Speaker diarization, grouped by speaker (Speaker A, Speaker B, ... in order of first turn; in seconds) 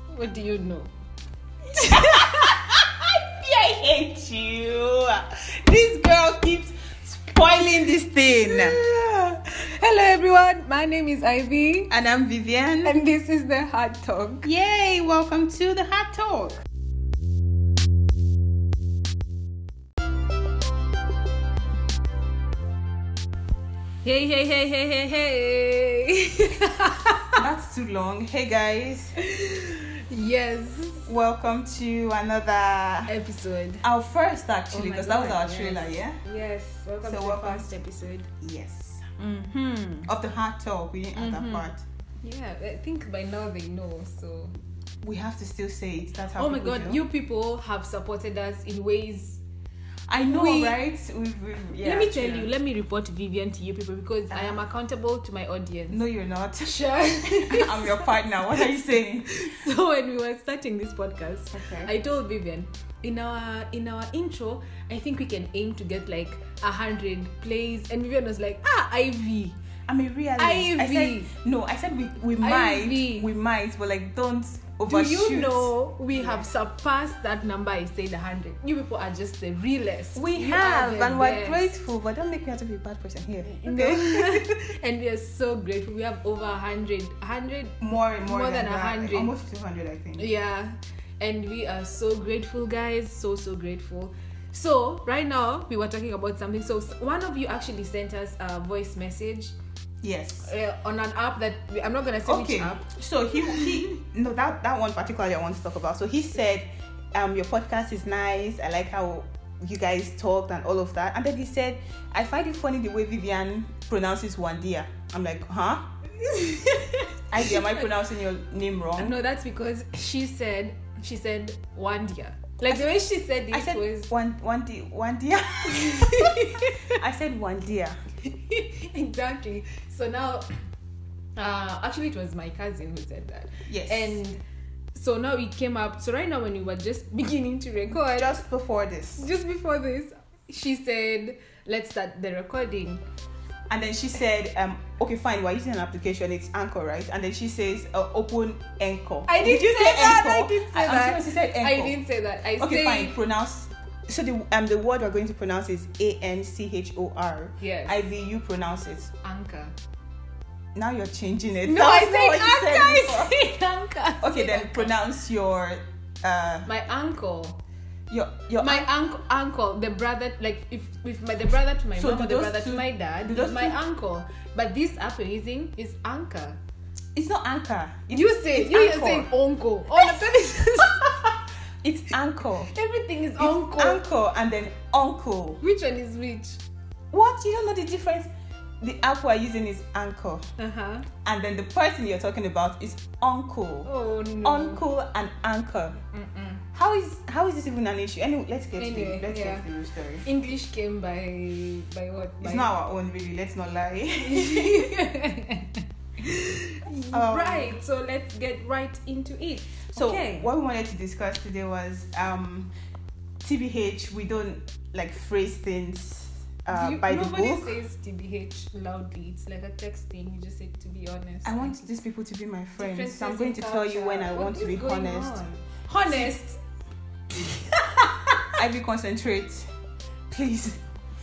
Speaker A: 0.1-0.9, 1.7-2.6, 8.3-11.9, 12.8-14.5, 24.0-27.4, 29.2-31.1, 33.1-33.8, 34.7-38.3, 39.2-40.1, 41.1-41.7, 42.2-44.5, 46.4-49.4, 50.2-50.8, 51.8-56.0, 56.6-58.2, 59.3-69.6, 70.4-71.3, 72.4-73.3, 74.8-81.7, 83.4-89.3, 90.2-99.5, 100.4-102.9, 116.2-117.7, 119.0-124.1, 125.7-127.0, 128.3-130.6, 131.4-134.4, 134.9-138.4, 139.2-143.0, 149.3-153.1, 157.6-158.0, 159.2-159.7, 161.6-164.9, 166.7-167.6, 168.6-176.6, 178.1-181.1, 182.7-184.0, 185.6-186.6, 190.6-191.0, 193.8-194.8, 196.1-196.6, 198.8-199.6, 200.2-202.7, 204.2-210.5, 216.7-221.8, 222.8-226.6, 227.3-228.6
Speaker B: 1.7-8.8, 11.9-12.9, 14.4-16.6, 27.4-29.1, 31.1-33.1, 33.8-36.2, 37.0-37.7, 38.4-39.1, 40.1-41.8, 45.0-47.0, 50.1-52.5, 54.3-54.6, 55.9-59.5, 61.5-61.9, 69.9-76.4, 80.1-84.5, 87.8-90.2, 100.0-100.5, 102.2-115.8, 117.3-119.2, 122.7-123.0, 123.5-128.0, 133.7-134.2, 138.1-139.2, 143.7-151.9, 152.6-159.1, 160.7-163.3, 164.2-166.7, 168.1-168.9, 172.0-173.8, 177.1-179.3, 180.8-182.7, 183.4-185.6, 187.1-188.3, 188.8-190.4, 191.2-193.9, 194.4-196.0, 196.7-200.2, 202.4-204.9, 207.1-207.7, 209.9-212.7, 213.4-217.7, 221.4-225.5, 226.0-226.3, 228.6-229.7, 230.3-230.8